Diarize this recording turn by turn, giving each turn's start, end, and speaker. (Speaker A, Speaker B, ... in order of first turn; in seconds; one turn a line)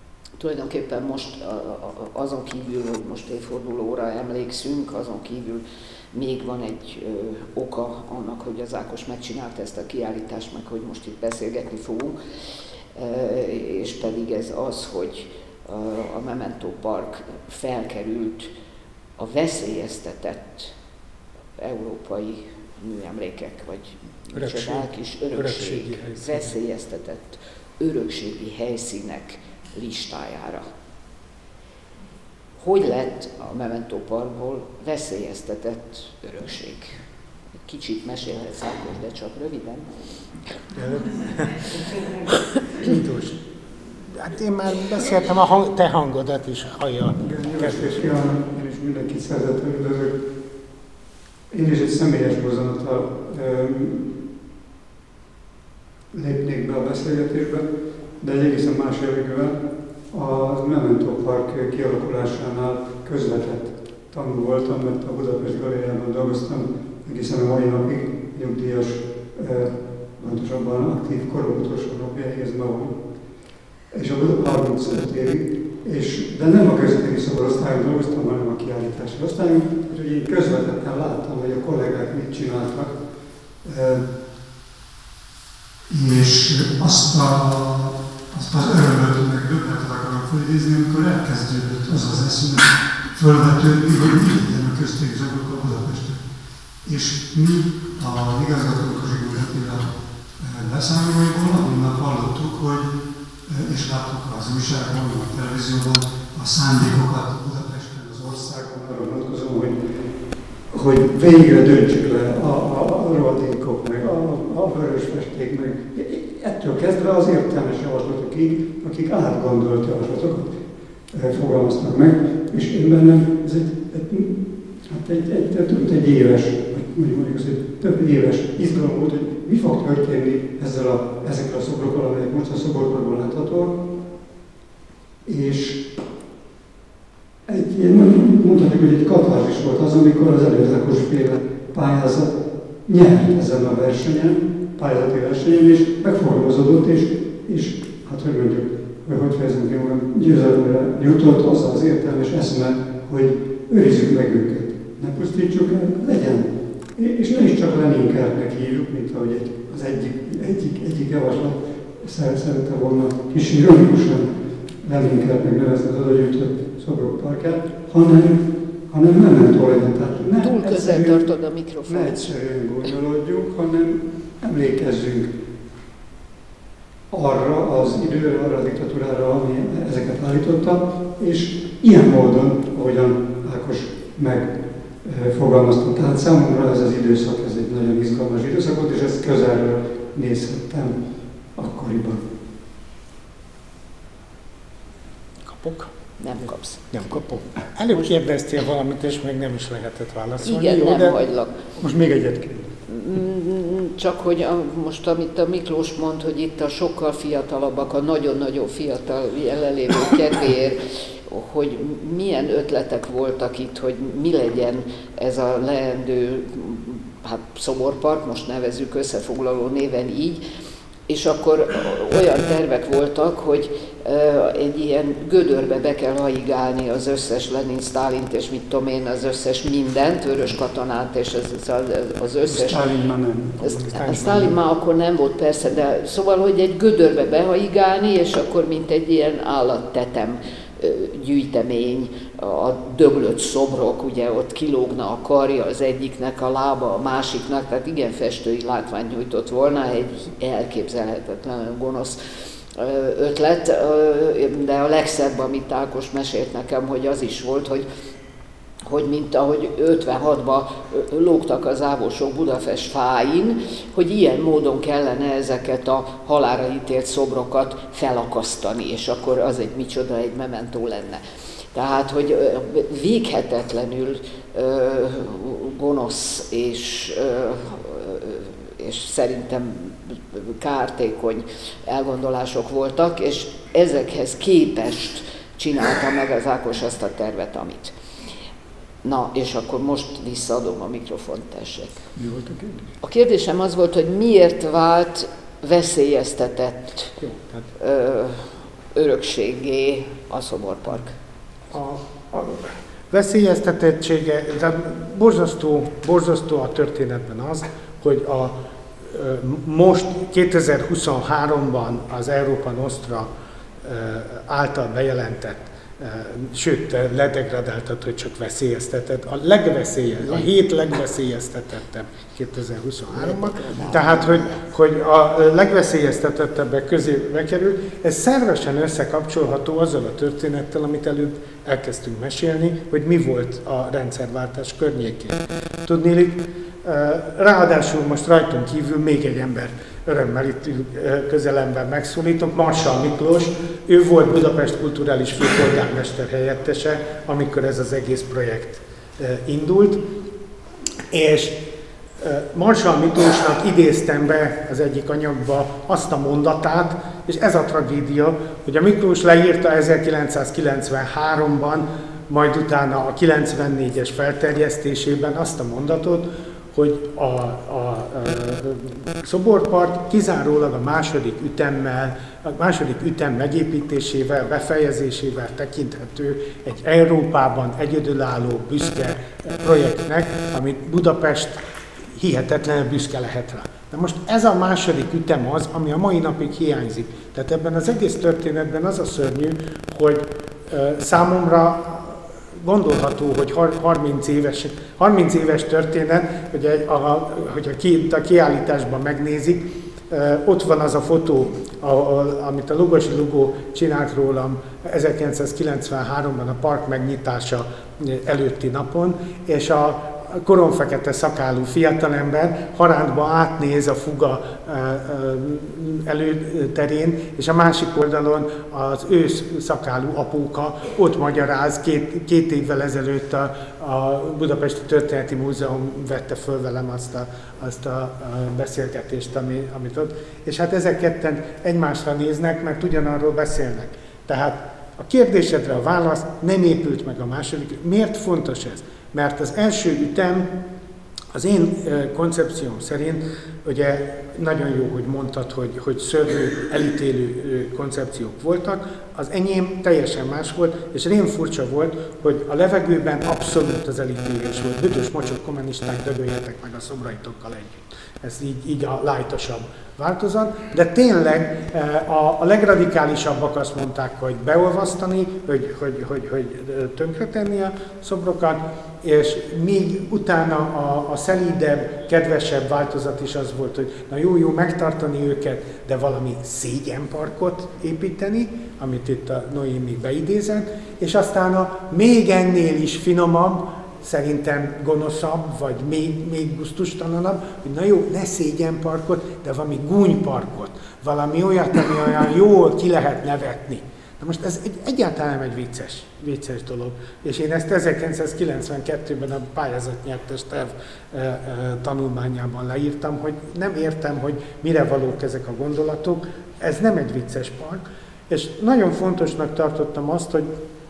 Speaker A: 0.4-12.2
Speaker A: 12.9-18.5
Speaker A: 19.2-20.8
Speaker A: 21.6-30.6
Speaker B: 24.3-26.5
Speaker A: 32.6-37.0
Speaker A: 37.6-39.9
Speaker B: 40.8-41.8
Speaker B: 42.7-43.4
Speaker B: 44.1-48.1
Speaker C: 47.2-50.1
Speaker C: 51.5-54.2
Speaker C: 56.1-57.6
Speaker C: 58.2-59.6
Speaker C: 60.1-73.0
Speaker C: 73.9-82.9
Speaker C: 83.6-84.0
Speaker C: 85.9-96.2
Speaker C: 96.8-102.9
Speaker C: 103.5-109.8
Speaker C: 110.7-120.5
Speaker C: 121.1-124.3
Speaker C: 124.9-133.8
Speaker C: 135.2-135.8
Speaker C: 137.5-142.3
Speaker C: 142.9-164.3
Speaker C: 164.8-171.2
Speaker A: 170.4-172.3
Speaker C: 171.9-175.3
Speaker C: 177.1-184.5
Speaker C: 185.0-191.0
Speaker C: 191.6-192.2
Speaker B: 195.4-195.9
Speaker A: 196.2-196.9
Speaker B: 196.9-201.2
Speaker A: 200.4-201.6
Speaker C: 201.8-202.7
Speaker A: 202.9-220.4
Speaker A: 221.1-232.8
Speaker C: 232.5-234.6
Speaker A: 233.6-252.2
Speaker A: 252.8-257.9
Speaker A: 258.8-271.2
Speaker A: 271.7-287.9
Speaker A: 289.0-292.1
Speaker C: 292.2-292.9
Speaker A: 293.0-297.2
Speaker B: 297.2-297.7
Speaker A: 297.8-301.1
Speaker B: 301.7-313.3
Speaker B: 313.8-350.0
Speaker A: 323.1-324.6
Speaker B: 351.1-351.6
Speaker B: 352.2-440.5
Speaker B: 441.3-510.5